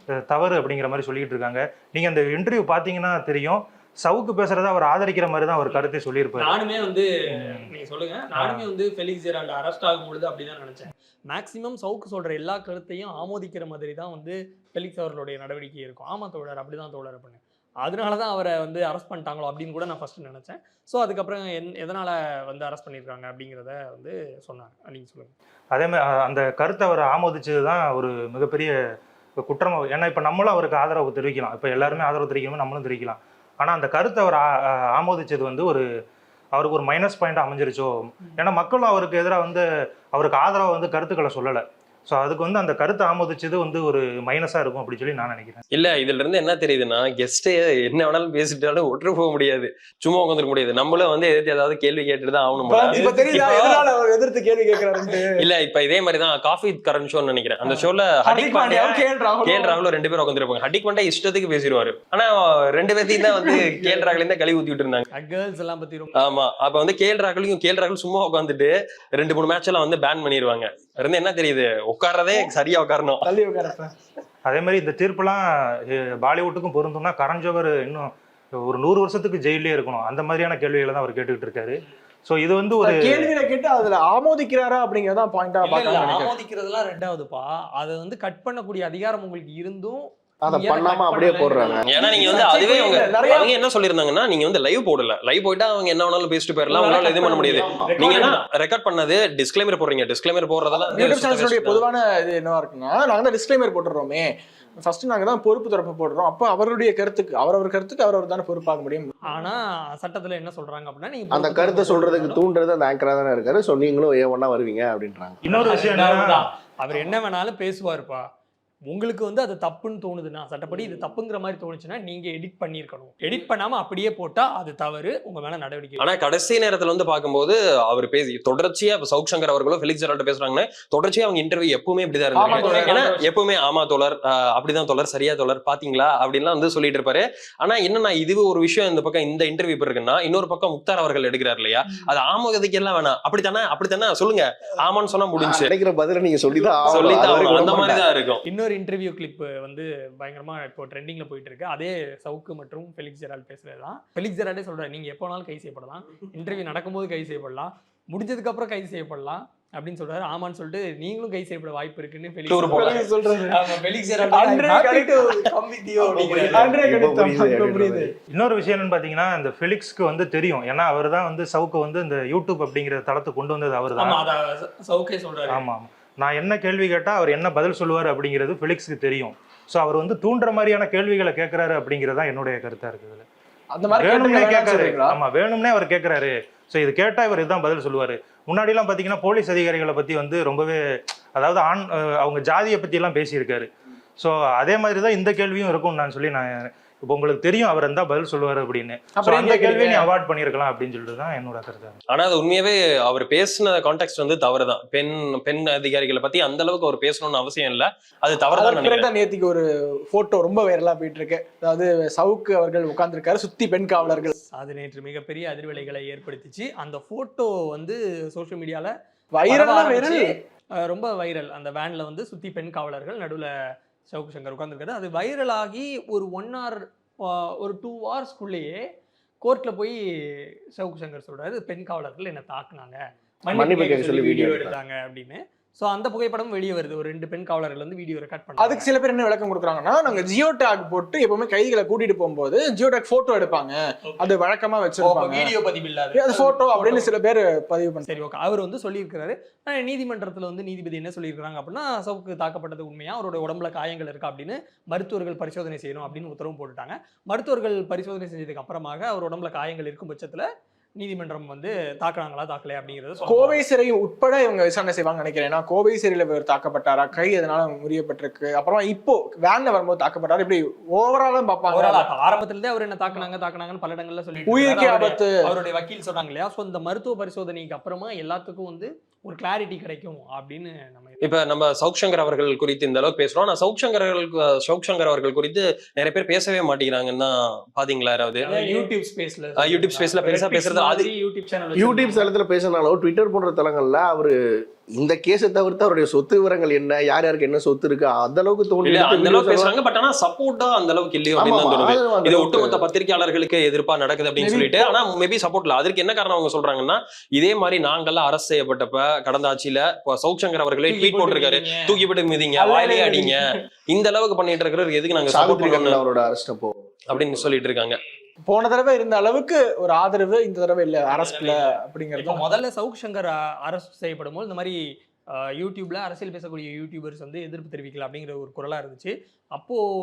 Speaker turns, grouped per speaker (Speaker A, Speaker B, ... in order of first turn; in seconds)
Speaker A: 0.3-6.6, 7.4-7.7, 8.3-8.7, 25.7-28.7, 29.4-35.9, 36.5-45.6, 74.5-83.3, 115.5-116.5, 168.3-174.2, 175.5-183.2, 183.9-190.8, 191.4-202.0
Speaker B: 6.4-25.3, 52.9-53.9, 65.1-66.3, 85.6-93.0, 96.7-98.4, 109.3-112.4, 115.5-118.3, 118.9-126.1, 132.4-133.1, 148.4-166.8, 174.0-175.7, 214.4-218.9, 219.5-223.5, 224.1-228.8, 229.4-238.9, 245.0-247.1, 248.1-260.5, 261.0-263.6, 271.7-281.2, 288.4-292.3, 310.9-312.0, 321.1-324.8, 325.4-329.8
Speaker C: 45.7-53.0, 55.4-65.1, 66.2-73.3, 91.9-101.8, 126.0-145.7, 146.9-148.4, 162.5-163.0, 202.1-209.1, 281.2-288.9, 289.6-291.1, 298.9-316.0, 317.1-318.0
Speaker D: 52.6-55.5, 57.7-59.8, 63.1-64.2, 73.2-73.9, 82.8-86.3, 92.0-93.5, 100.9-104.3, 104.8-109.1, 132.3-133.3, 162.6-163.6, 164.2-165.4, 166.2-168.1, 183.7-185.2, 199.2-200.1, 208.6-214.3, 219.3-220.3, 238.6-245.5, 246.1-248.1, 263.3-272.1, 274.5-275.4, 304.4-304.9, 312.6-313.6, 318.5-322.4
Speaker E: 90.4-91.9, 111.3-115.4, 145.4-148.1, 166.1-168.1, 233.6-234.8, 291.8-294.4, 294.9-299.7, 301.4-302.8, 315.3-316.7